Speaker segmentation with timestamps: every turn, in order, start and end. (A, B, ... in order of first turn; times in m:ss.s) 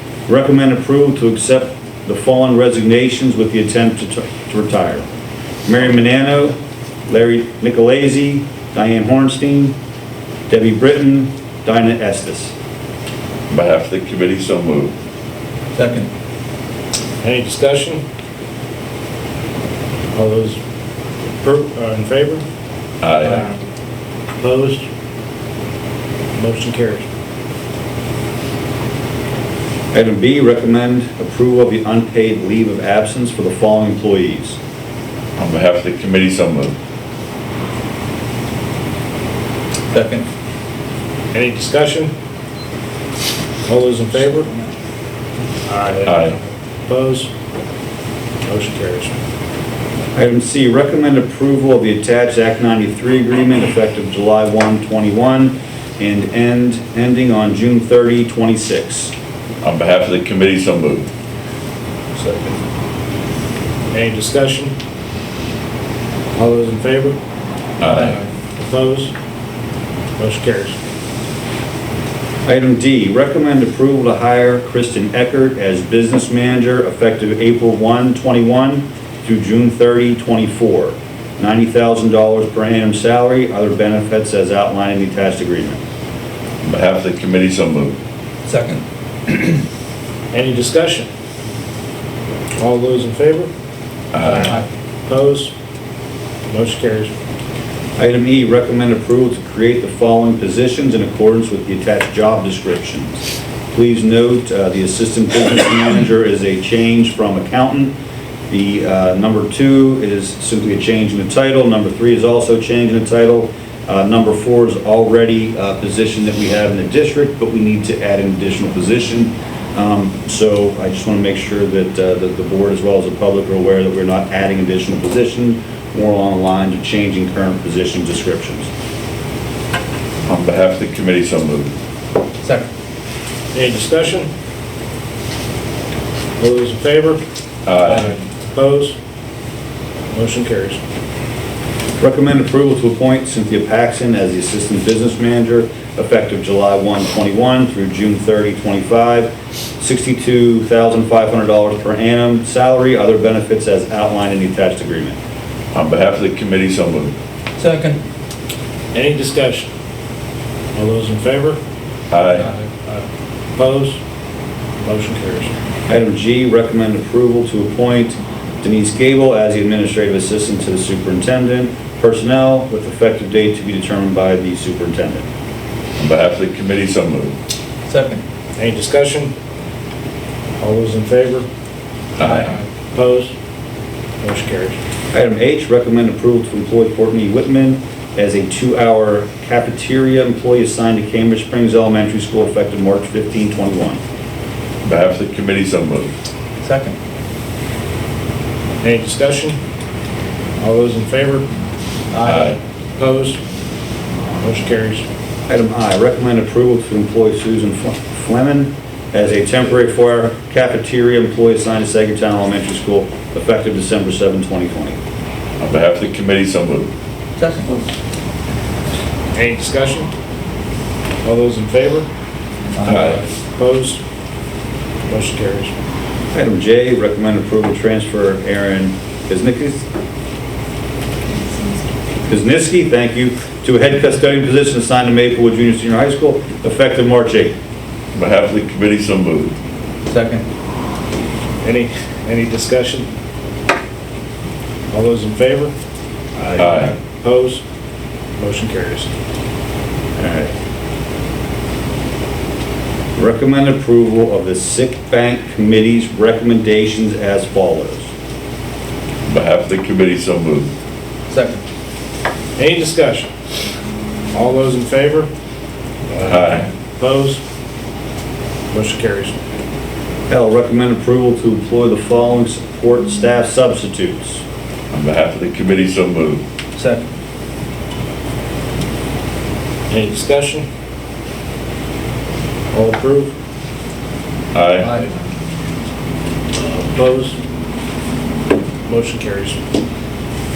0:00.3-0:05.0 A
0:05.6-0:06.6 A
0:07.1-0:09.8 A
0:10.5-0:12.5 A
0:13.5-0:14.9 B
0:15.8-0:16.1 C
0:17.2-0:18.0 D
0:20.1-0:20.6 D
0:21.4-0:22.4 D
0:23.0-0:23.4 B
0:24.4-0:24.9 D
0:26.3-0:27.1 D
0:29.9-0:34.6 A
0:35.4-0:36.8 B
0:39.9-0:40.3 C
0:41.3-0:42.1 D
0:43.7-0:44.5 D
0:45.7-0:46.3 D
0:46.0-0:46.4 B
0:46.9-0:47.3 D
0:48.4-0:49.2 D
0:50.2-0:59.1 A
0:59.6-1:01.1 B
1:02.2-1:02.6 D
1:03.9-1:04.7 D
1:06.3-1:07.2 D
1:07.8-1:08.2 B
1:08.6-1:09.1 D
1:10.2-1:10.8 D
1:12.4-1:25.8 A
1:26.6-1:28.0 B
1:28.4-1:29.5 C
1:30.3-1:31.1 D
1:32.6-1:33.5 D
1:34.1-1:34.6 B
1:34.3-1:34.6 C
1:35.1-1:35.5 D
1:36.5-1:37.1 D
1:38.0-1:47.9 A
1:48.5-2:08.7 A
2:10.3-2:11.7 B
2:12.4-2:12.7 C
2:13.5-2:14.3 D
2:16.4-2:17.2 D
2:17.7-2:18.1 B
2:17.9-2:19.0 D
2:20.1-2:20.8 D
2:22.0-2:35.2 A
2:35.7-2:37.1 B
2:37.6-2:38.0 C
2:38.9-2:39.7 D
2:40.7-2:41.6 D
2:42.1-2:42.5 B
2:42.8-2:44.0 D
2:44.8-2:45.5 D
2:45.9-2:55.3 A
2:56.0-2:57.3 B
2:57.9-2:58.2 C
2:58.6-2:59.3 D
3:00.6-3:01.5 D
3:02.2-3:02.6 B
3:02.3-3:02.5 C
3:02.9-3:03.3 D
3:04.2-3:04.8 D
3:05.1-3:14.0 A
3:14.8-3:16.1 B
3:16.6-3:17.0 C
3:18.8-3:19.6 D
3:20.6-3:21.5 D
3:22.1-3:22.6 C
3:22.2-3:22.6 B
3:23.0-3:23.4 D
3:24.4-3:25.0 D
3:25.5-3:35.0 A
3:35.6-3:36.9 B
3:37.4-3:37.8 C
3:39.3-3:40.1 D
3:41.2-3:42.1 D
3:42.8-3:43.2 C
3:42.8-3:43.2 B
3:43.5-3:44.0 D
3:45.1-3:45.7 D
3:46.3-3:49.9 A
3:52.3-3:57.6 A
3:58.1-3:59.6 B
4:00.1-4:00.4 C
4:01.6-4:03.1 D
4:04.9-4:05.7 D
4:06.4-4:07.6 D
4:06.6-4:06.9 B
4:08.4-4:09.1 D
4:10.2-4:10.5 A
4:13.2-4:18.1 A
4:19.3-4:20.7 B
4:21.3-4:21.6 C
4:22.6-4:23.3 D
4:24.3-4:25.3 D
4:26.1-4:27.4 D
4:26.2-4:26.7 B
4:28.7-4:29.4 D
4:30.3-4:34.4 A
4:34.9-4:36.4 B
4:36.8-4:37.1 C
4:39.9-4:40.7 D
4:42.7-4:43.3 D
4:44.5-4:44.9 B
4:44.8-4:45.1 C
4:46.6-4:47.4 D
4:48.9-4:49.6 D